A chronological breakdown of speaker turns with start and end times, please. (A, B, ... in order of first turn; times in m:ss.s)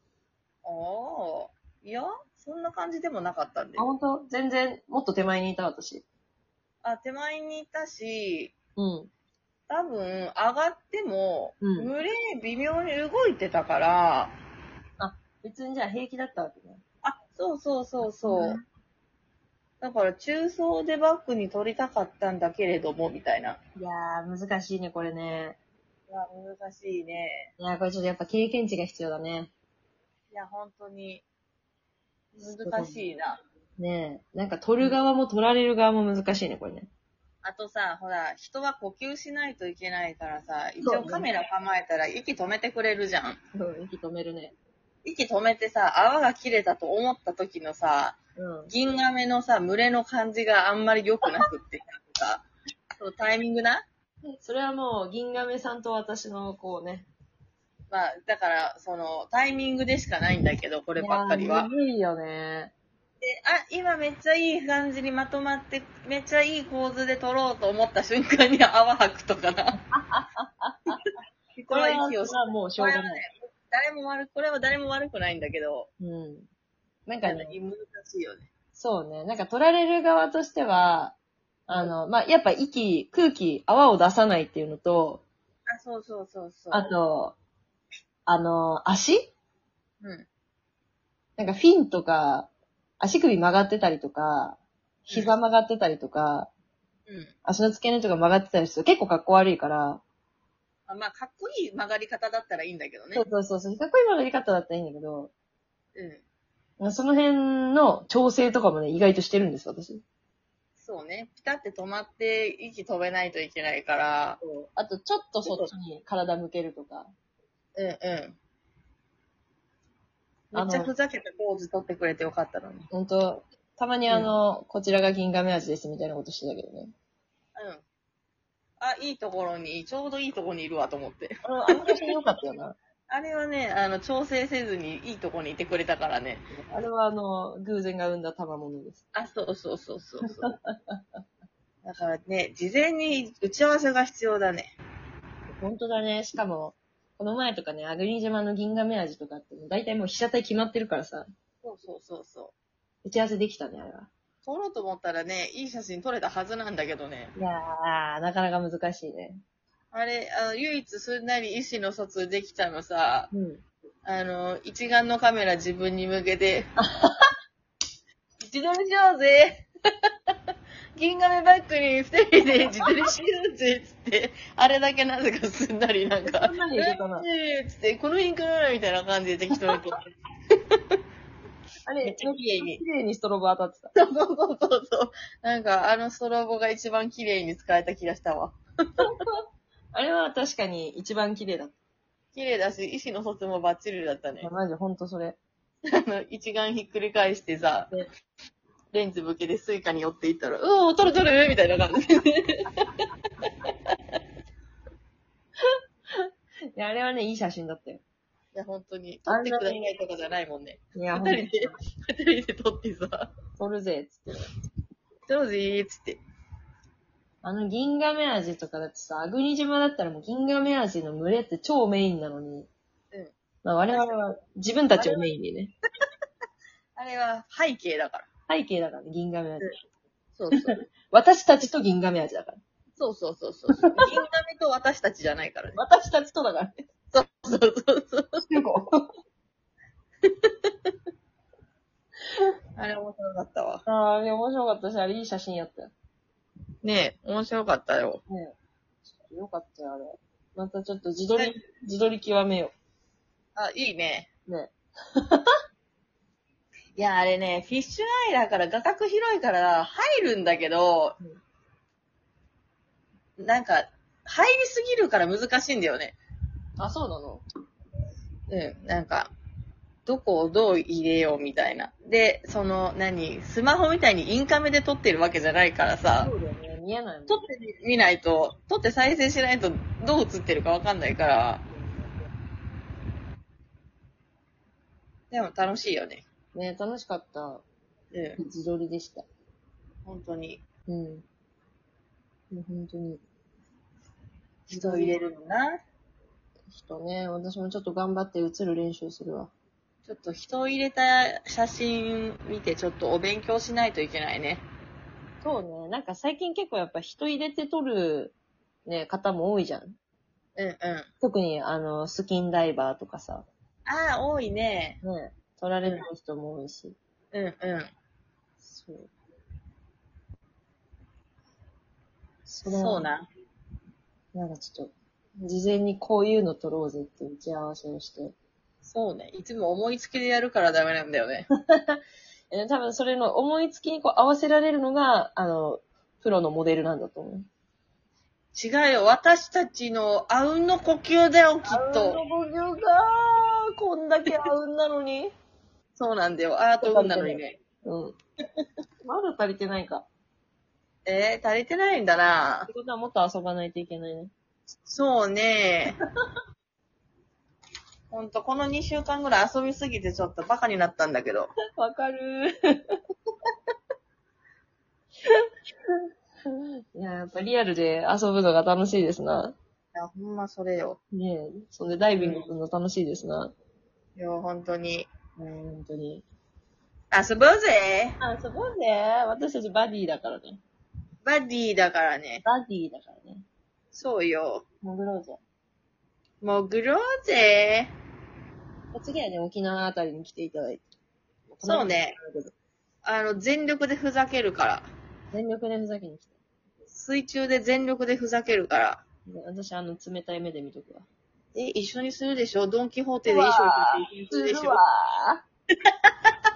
0:00.6-0:03.9 A
0:03.8-0:06.1 B
0:06.8-0:08.6 A
0:08.8-0:09.1 B
0:09.7-0:14.4 A
0:11.6-0:11.9 B
0:15.0-0:16.8 B
0:17.0-0:18.6 A
0:18.0-0:18.6 B
0:19.8-0:23.6 A
0:23.8-0:25.6 B
0:26.1-0:27.5 A
0:27.6-0:29.5 B
0:30.3-0:31.2 A
0:32.4-0:33.4 A
0:32.4-0:33.1 B
0:33.8-0:36.9 B
0:37.4-0:43.4 A
0:40.8-0:41.3 B
0:43.6-0:44.6 B
0:45.0-0:52.4 A
0:48.4-0:48.7 B
0:53.0-0:53.9 A
0:54.3-0:57.1 B
0:57.9-1:01.7 A
1:01.0-1:02.7 B
1:03.2-1:09.8 A
1:09.8-1:11.0 B
1:11.6-1:15.9 A
1:11.7-1:13.2 B
1:16.0-1:16.5 B
1:17.1-1:17.6 B
1:17.2-1:18.5 A
1:18.8-1:21.2 B
1:21.7-1:25.2 B
1:25.7-1:26.9 A
1:26.7-1:27.4 B
1:28.3-1:29.3 B
1:31.4-1:36.5 B
1:35.1-1:35.4 A
1:37.1-1:37.3 A
1:37.4-1:40.0 B
1:40.9-1:43.2 A
1:43.2-1:45.3 B
1:46.0-1:46.2 A
1:46.8-1:50.0 B
1:50.8-1:54.4 A
1:54.4-1:57.1 B
1:55.4-1:55.7 A
1:57.8-1:58.4 A
2:00.5-2:02.9 A
2:00.6-2:00.9 B
2:02.9-2:06.9 B
2:07.6-2:07.8 A
2:08.8-2:12.0 A
2:11.4-2:12.8 B
2:13.1-2:16.5 A
2:16.5-2:19.0 B
2:19.1-2:20.6 A
2:20.5-2:21.0 B
2:21.8-2:24.7 A
2:25.5-2:31.3 B
2:31.6-2:32.5 A
2:33.0-2:34.1 B
2:34.4-2:37.3 A
2:37.4-2:39.4 B
2:39.9-2:43.3 A
2:43.3-2:43.6 B
2:44.0-2:46.7 A
2:46.8-2:47.3 B
2:48.4-2:50.3 A
2:51.0-3:00.0 A
2:56.2-2:57.3 B
3:00.7-3:01.0 A
3:01.8-3:03.9 B
3:02.0-3:02.8 A
3:04.0-3:09.1 A
3:09.0-3:11.8 B
3:12.4-3:14.5 A
3:14.4-3:15.4 B
3:15.9-3:17.9 A
3:18.9-3:23.0 A
3:26.1-3:28.0 B
3:28.5-3:33.3 A
3:29.3-3:29.8 B
3:31.0-3:31.8 B
3:33.6-3:34.5 B
3:35.3-3:36.2 A
3:37.4-3:42.7 B
3:43.6-3:45.7 B
3:44.9-3:45.2 A
3:47.0-3:48.3 A
3:48.5-3:49.7 B
3:50.4-3:50.8 A
3:50.5-3:52.6 B
3:53.0-3:55.8 A
3:53.8-3:54.0 B
3:55.8-3:56.8 B
3:57.1-3:58.5 A
3:58.5-3:59.1 B
4:00.3-4:00.7 A
4:02.8-4:03.8 A
4:03.9-4:05.9 B
4:06.8-4:08.2 A
4:08.3-4:08.6 B
4:09.1-4:12.7 B
4:13.6-4:14.3 A
4:14.5-4:15.4 B
4:17.0-4:21.2 A
4:23.4-4:26.2 A
4:26.8-4:27.4 B
4:28.5-4:29.3 A
4:30.1-4:36.3 A
4:36.2-4:37.5 B
4:37.3-4:41.6 A
4:41.7-4:42.2 B
4:45.3-4:46.2 A
4:46.6-4:47.6 B
4:48.1-4:48.4 A
4:48.4-4:49.3 B
4:50.1-4:50.6 A
4:50.9-4:51.2 B
4:52.5-4:53.2 B
4:54.7-4:55.2 B
4:54.7-4:55.8 A
4:56.7-4:59.5 B
5:00.1-5:04.6 A
5:05.4-5:08.4 B
5:08.9-5:10.0 B
5:10.6-5:11.1 A
5:11.2-5:13.5 B
5:13.9-5:15.0 A
5:15.0-5:17.0 B
5:17.3-5:17.9 A
5:18.6-5:19.1 B
5:22.5-5:23.1 B
5:22.7-5:23.3 A
5:24.3-5:28.4 B
5:28.8-5:31.5 A
5:31.6-5:37.5 B
5:38.5-5:42.2 A
5:41.6-5:45.3 B
5:44.2-5:44.5 A
5:46.0-5:47.6 A
5:46.8-5:48.2 B
5:49.0-5:50.1 B
5:51.0-5:52.7 A
5:52.7-5:54.3 B
5:54.9-5:56.0 A
5:58.1-6:01.5 A
6:01.8-6:03.0 B
6:07.0-6:09.6 B
6:09.9-6:11.0 A
6:11.1-6:13.5 B
6:12.2-6:12.5 A
6:14.2-6:15.1 A
6:15.4-6:16.2 B
6:17.1-6:18.2 A
6:18.2-6:20.6 B
6:21.2-6:22.4 A
6:22.4-6:23.4 B
6:23.9-6:24.6 A
6:24.8-6:25.4 B
6:26.4-6:27.9 A
6:28.9-6:30.8 B
6:31.5-6:32.5 B
6:31.6-6:32.2 A
6:33.0-6:34.9 A
6:35.3-6:36.4 B
6:36.9-6:39.0 A
6:39.3-6:41.1 B
6:41.5-6:44.8 A
6:43.3-6:45.4 B
6:45.9-6:46.3 A